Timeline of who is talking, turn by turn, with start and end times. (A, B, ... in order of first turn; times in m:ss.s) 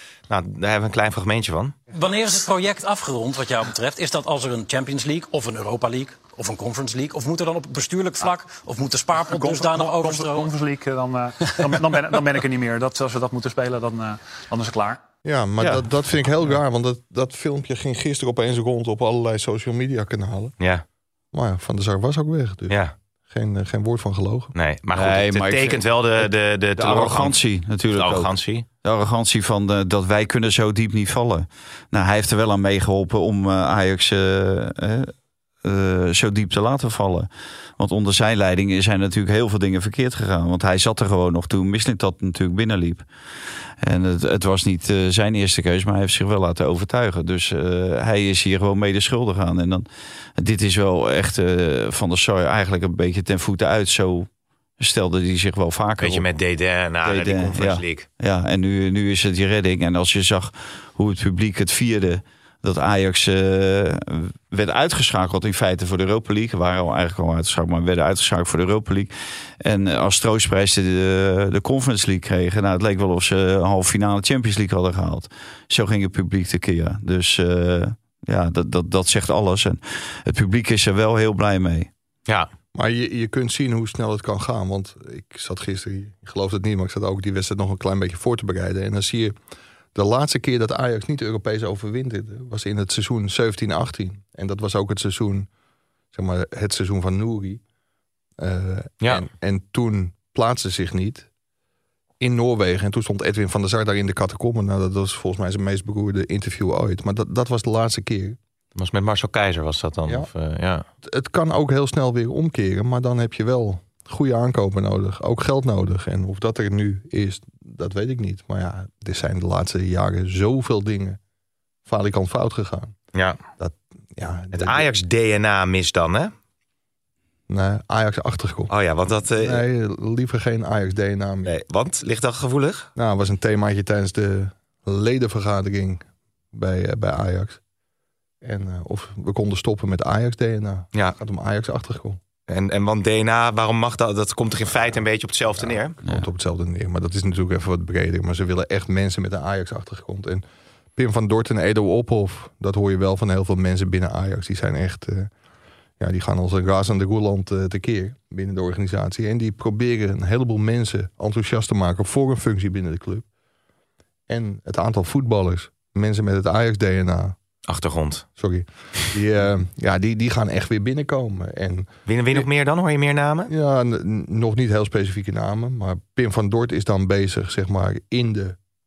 0:00.3-0:01.8 A
0:01.9-0:10.5 B
0:09.3-0:15.0 C
0:15.2-0:20.5 D
0:21.3-0:24.5 D
0:24.6-0:27.4 A
0:24.9-0:28.3 E
0:27.9-0:28.6 A
0:28.8-0:43.0 E
0:43.8-0:49.9 E
0:50.4-0:56.2 E
0:56.0-0:58.1 A
0:57.0-1:21.9 E
1:22.8-1:29.4 D
1:30.0-1:35.5 D
1:36.1-1:37.6 D
1:38.4-1:41.3 D
1:42.2-1:48.4 D
1:48.8-1:50.9 A
1:51.0-2:01.2 D
2:01.9-2:03.0 D
2:03.6-2:04.9 D
2:04.5-2:06.3 A
2:07.5-2:08.7 D
2:08.7-2:09.6 A
2:09.4-2:11.5 D
2:11.4-2:12.9 A
2:13.0-2:17.6 D
2:18.4-2:22.2 D
2:22.5-2:26.0 A
2:25.6-2:30.4 D
2:31.0-2:35.3 D
2:36.0-2:43.3 D
2:44.3-2:47.4 D
2:47.7-2:48.3 A
2:48.4-2:52.5 D
2:52.1-2:53.5 A
2:53.5-2:58.6 D